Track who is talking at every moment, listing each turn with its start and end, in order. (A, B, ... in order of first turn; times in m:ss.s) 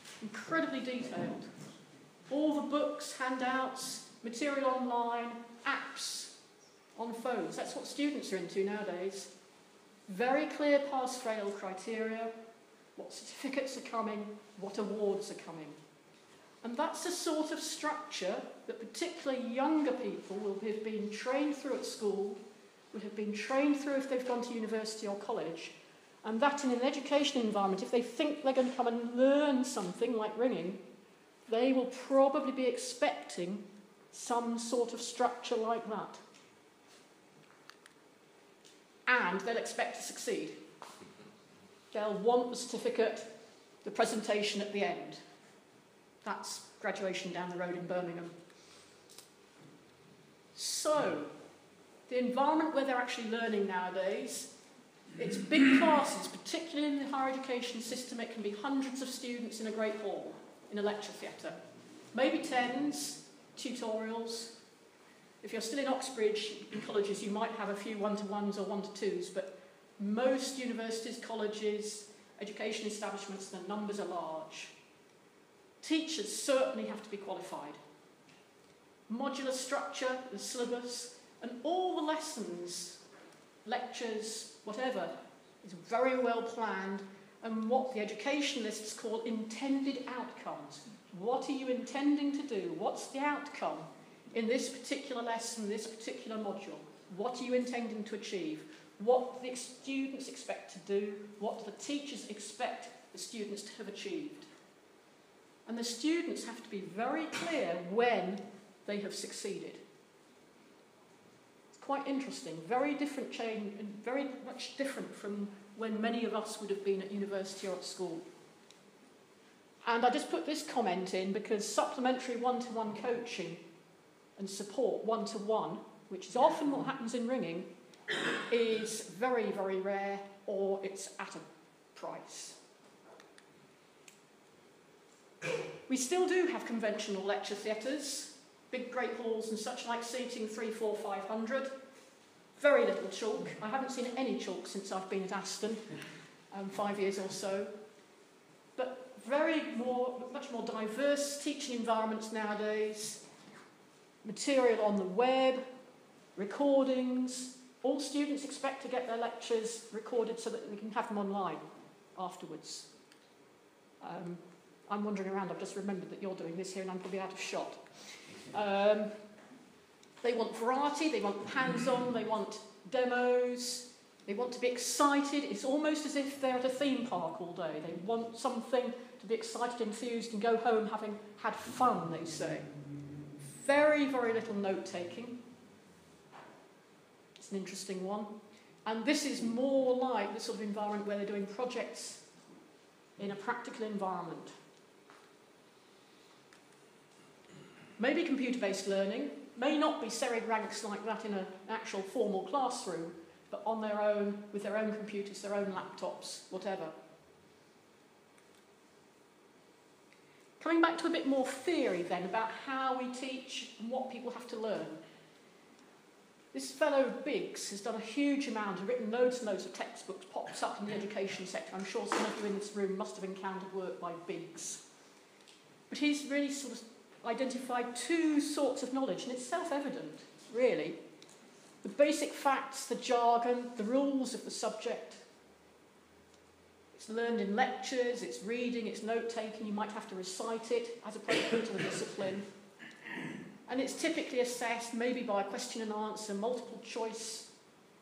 0:00.2-0:01.5 A
0:02.3-0:06.4 A
0:07.0-0:09.3 A
0:10.1-0:12.3 A
0:13.0-0:15.8 A
0:16.6-0:22.4 A
0:22.9-0:30.8 A
0:31.5-0:36.2 A
0:39.1-0:40.6 A
0:41.9-0:43.3 A
0:43.8-0:45.2 A
0:46.2-0:48.3 A
0:50.5-0:51.3 A
0:52.1-0:54.5 A
0:55.2-1:01.6 A
1:02.1-1:04.5 A
1:05.4-1:14.7 A
1:15.8-1:17.8 A
1:19.1-1:23.0 A
1:23.6-1:44.5 A
1:45.6-1:49.8 A
1:51.7-1:58.2 A
1:59.8-2:03.6 A
2:04.4-2:07.7 A
2:08.5-2:12.6 A
2:15.9-2:21.7 A
2:22.6-2:25.8 A
2:26.5-2:27.7 A
2:28.8-2:33.2 A
2:34.2-2:35.6 A
2:36.4-2:42.9 A
2:44.0-2:47.8 A
2:48.3-2:49.1 A
2:50.2-3:02.7 A
3:03.4-3:05.4 A
3:07.4-3:08.3 A
3:08.8-3:12.2 A
3:13.2-3:14.5 A
3:18.0-3:26.9 A
3:30.6-3:35.0 A
3:36.5-3:44.8 A
3:45.9-3:51.0 A
3:51.8-3:55.2 A
3:56.9-4:02.5 A
4:03.7-4:07.5 A